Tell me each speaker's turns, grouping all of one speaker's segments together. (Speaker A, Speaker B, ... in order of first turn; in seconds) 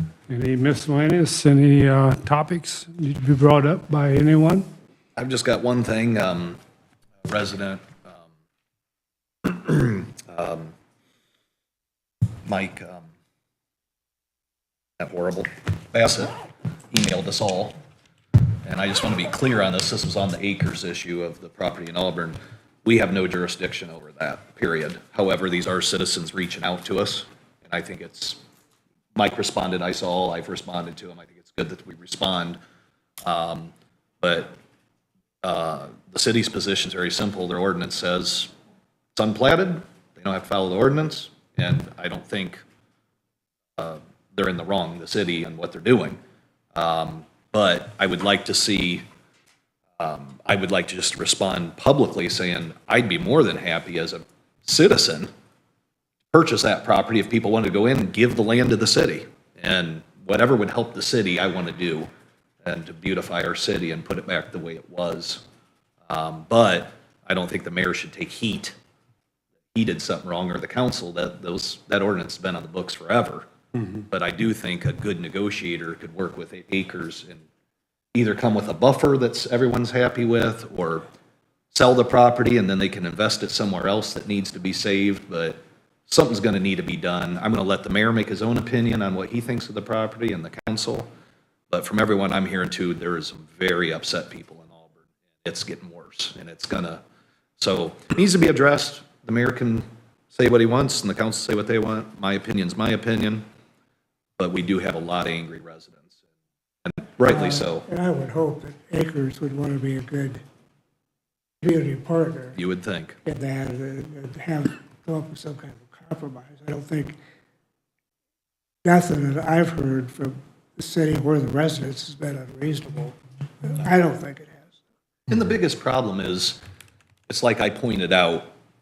Speaker A: 0.3-4.7
Speaker B: 5.2-6.6, 7.2-8.2, 9.4-10.7, 12.5-13.1, 15.0-16.3, 16.9-17.8, 18.6-28.4, 29.1-32.6, 33.2-34.6, 35.4-38.5, 39.1-42.6, 43.8-46.2, 46.8-49.0, 50.0-55.3, 56.3-62.1, 62.6-65.4, 66.1-68.8, 69.7-77.4, 78.1-81.0, 81.7-91.1, 91.7-97.0, 97.6-103.4, 104.4-106.1, 106.8-107.9, 112.6-113.2, 125.3-126.6, 127.3-128.5
Speaker C: 107.2-110.4, 111.6-112.6, 113.2-117.2, 118.8-124.8